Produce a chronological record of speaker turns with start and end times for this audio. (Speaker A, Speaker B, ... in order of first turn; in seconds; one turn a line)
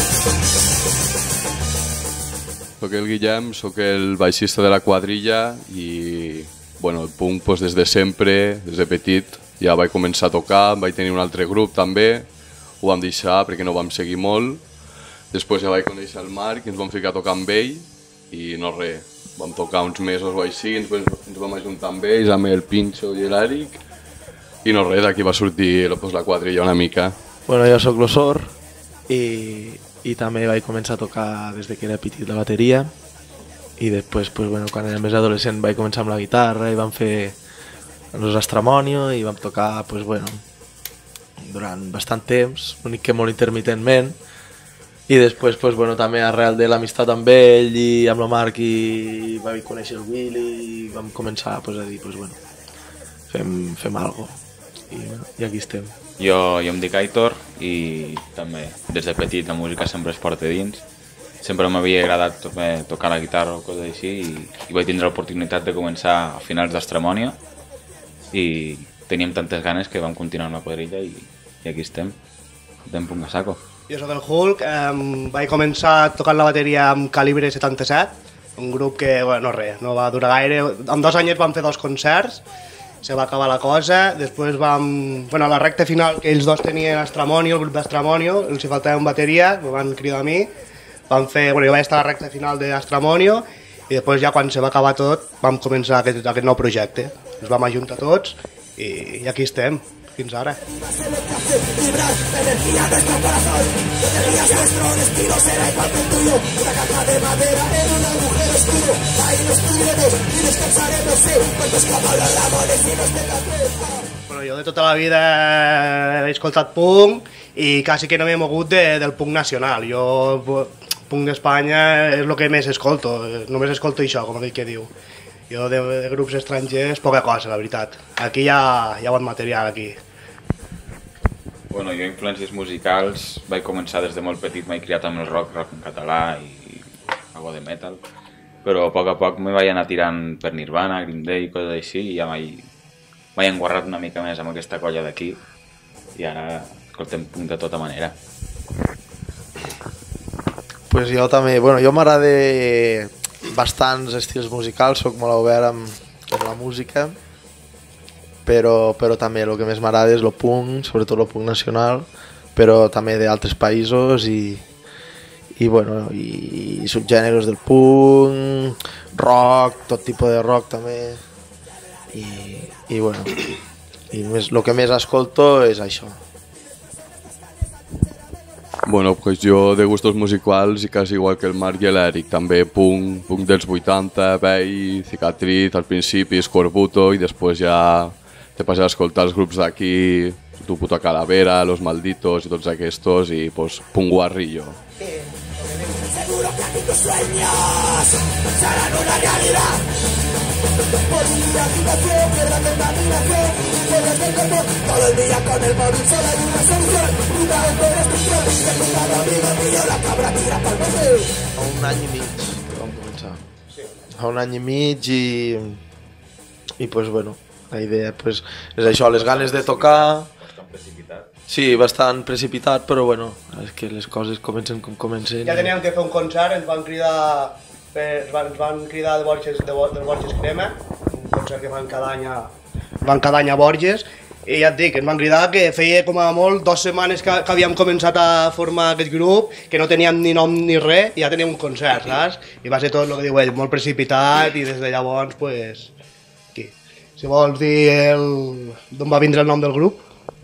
Speaker A: 2.8-12.3
Speaker A: 12.8-14.6
Speaker A: 15.3-23.8
Speaker A: 24.6-27.1
Speaker B: 27.5-28.5
Speaker B: 29.1-32.9
Speaker B: 33.8-37.4
Speaker B: 38.1-40.4
Speaker B: 41.4-44.2
Speaker B: 45.1-52.4
Speaker B: 53.3-54.4
Speaker B: 54.9-55.9
Speaker C: 56.2-60.8
Speaker C: 61.4-67.4
Speaker C: 68.3-72.2
Speaker C: 72.8-73.6
Speaker D: 73.9-82.4
Speaker D: 83.0-90.5
Speaker D: 91.1-100.6
Speaker E: 100.6-114.0
Speaker D: 114.3-124.9
Speaker D: 125.5-130.0
Speaker C: 131.7-138.0
Speaker C: 138.6-142.7
Speaker C: 143.3-145.4
Speaker C: 146.1-148.2
Speaker B: 150.9-157.2
Speaker B: 158.4-164.6
Speaker B: 165.6-171.2
Speaker B: 172.1-173.6
Speaker B: 174.1-176.2
Speaker A: 178.8-194.8
Speaker D: 195.0-196.0
Speaker E: 196.0-199.8
Speaker E: 201.0-211.4
Speaker B: 211.6-213.4
Speaker D: 213.7-214.0
Speaker B: 214.1-215.8
Speaker B: 216.8-220.3
Speaker C: 218.8-221.3
Speaker B: 221.5-225.7
Speaker D: 225.4-245.9
Speaker D: 246.5-250.0